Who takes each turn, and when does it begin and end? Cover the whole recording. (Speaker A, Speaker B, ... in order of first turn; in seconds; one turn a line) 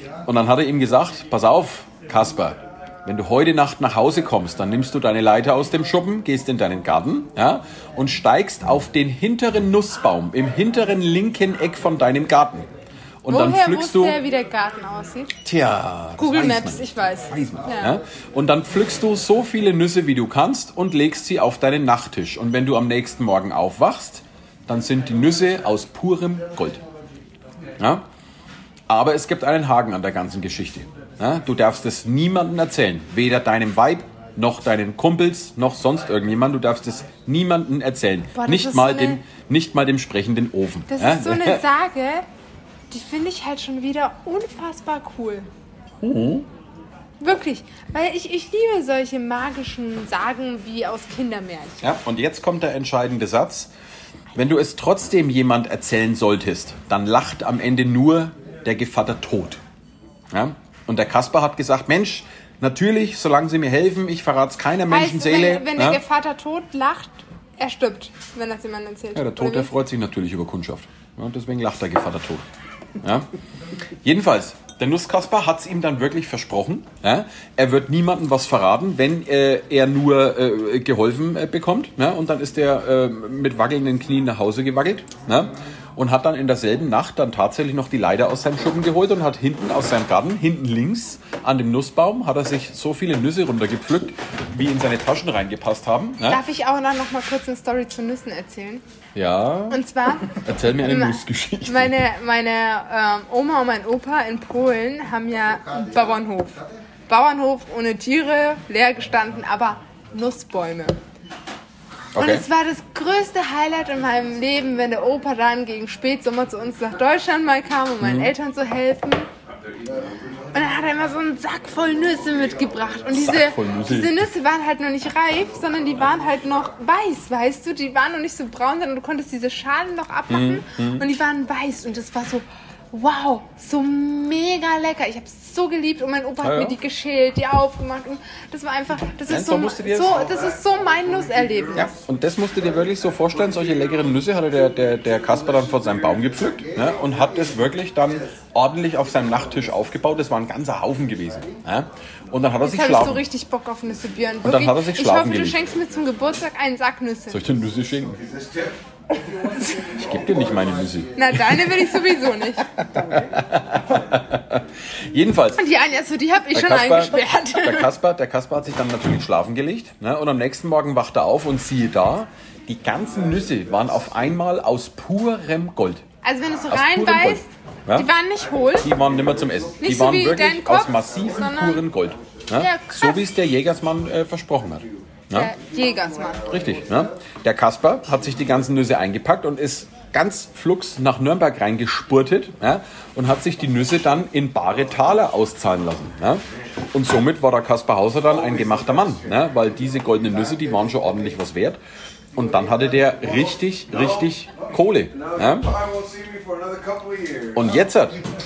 Speaker A: 0.2-12.7
Speaker A: 13.2-14.2
Speaker B: 13.3-15.4
Speaker A: 15.4-26.8
Speaker B: 16.2-18.0
Speaker A: 27.8-28.0
Speaker A: 28.9-41.6
Speaker B: 38.3-39.2
Speaker B: 40.9-42.2
Speaker B: 42.9-45.5
Speaker A: 46.0-46.5
Speaker B: 47.2-51.9
Speaker A: 51.8-53.7
Speaker A: 54.3-59.6
Speaker A: 60.3-66.0
Speaker B: 64.9-69.7
Speaker A: 69.1-72.5
Speaker A: 73.0-73.2
Speaker A: 74.0-96.4
Speaker B: 96.2-98.8
Speaker A: 99.1-102.0
Speaker B: 99.7-111.0
Speaker A: 112.1-112.4
Speaker B: 112.2-119.3
Speaker A: 118.0-118.3
Speaker B: 120.5-141.9
Speaker A: 123.1-124.2
Speaker A: 130.3-131.1
Speaker A: 136.4-136.8
Speaker A: 139.3-140.3
Speaker A: 141.7-153.2
Speaker B: 152.6-157.4
Speaker A: 154.4-155.6
Speaker A: 157.3-158.2
Speaker B: 159.4-159.8
Speaker A: 159.7-162.1
Speaker B: 161.2-162.7
Speaker A: 162.6-165.6
Speaker B: 165.6-167.9
Speaker A: 166.5-176.0
Speaker B: 176.2-178.9
Speaker A: 176.7-178.1
Speaker A: 178.8-185.5
Speaker B: 179.8-181.8
Speaker B: 182.6-183.2
Speaker B: 185.3-186.5
Speaker A: 186.5-201.8
Speaker A: 202.3-205.9
Speaker A: 207.5-208.2